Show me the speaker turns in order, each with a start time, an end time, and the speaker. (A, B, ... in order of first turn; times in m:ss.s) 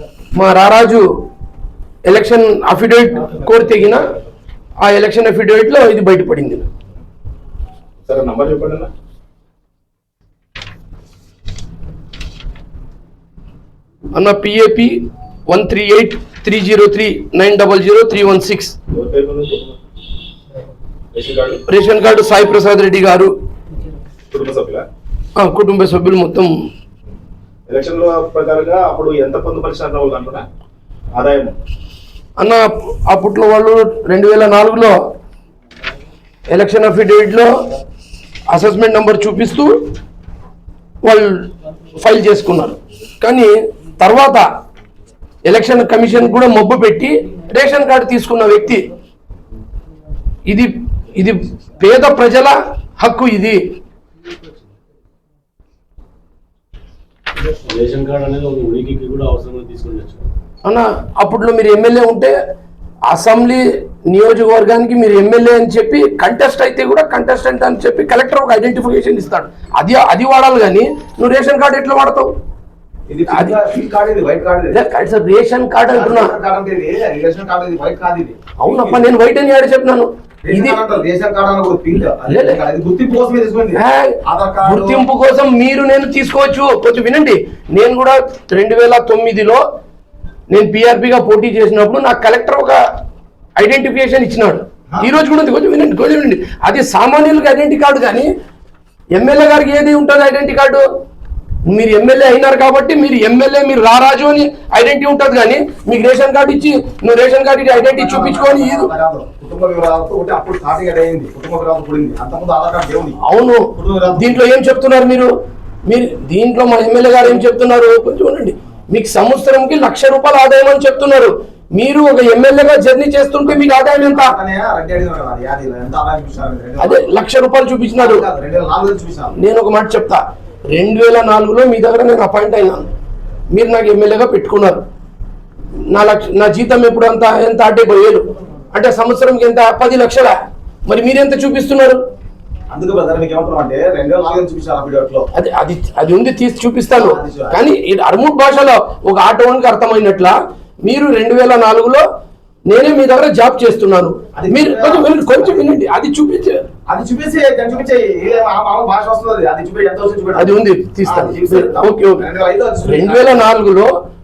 0:00.4-0:01.1 A
0:02.1-0:04.1 A
0:04.8-0:06.7 A
0:08.0-0:08.9 B
0:14.1-0:18.8 A
0:18.9-0:19.7 B
0:21.1-0:21.6 B
0:21.7-0:23.3 A
0:24.3-0:24.9 B
0:25.4-0:26.5 A
0:27.7-0:30.5 B
0:31.2-0:31.6 B
0:32.4-0:35.0 A
0:36.5-0:37.5 A
0:38.5-0:39.8 A
0:41.0-0:44.5 A
0:45.5-0:48.9 A
0:50.5-0:53.6 A
0:57.7-1:00.0 C
1:00.6-1:02.4 A
1:03.1-1:12.3 A
1:13.1-1:14.8 D
1:13.3-1:13.6 A
1:14.7-1:16.3 A
1:15.9-1:19.0 D
1:18.6-1:20.8 A
1:20.4-1:25.0 D
1:22.3-1:22.6 A
1:23.8-1:29.6 A
1:30.5-1:32.8 A
1:33.6-1:38.3 A
1:39.1-1:40.9 A
1:41.7-1:48.9 A
1:47.8-1:53.2 D
1:53.2-1:55.3 A
1:53.7-1:54.4 D
1:55.9-2:04.3 A
2:03.8-2:07.1 D
2:06.8-2:08.2 A
2:08.0-2:09.4 D
2:09.4-2:12.9 A
2:13.5-2:14.8 A
2:15.9-2:20.4 A
2:20.9-2:22.0 A
2:22.7-2:25.3 D
2:25.4-2:32.0 A
2:27.0-2:27.6 D
2:32.7-2:36.6 A
2:34.4-2:35.7 D
2:36.9-2:43.4 D
2:40.4-2:42.2 A
2:42.9-2:43.9 A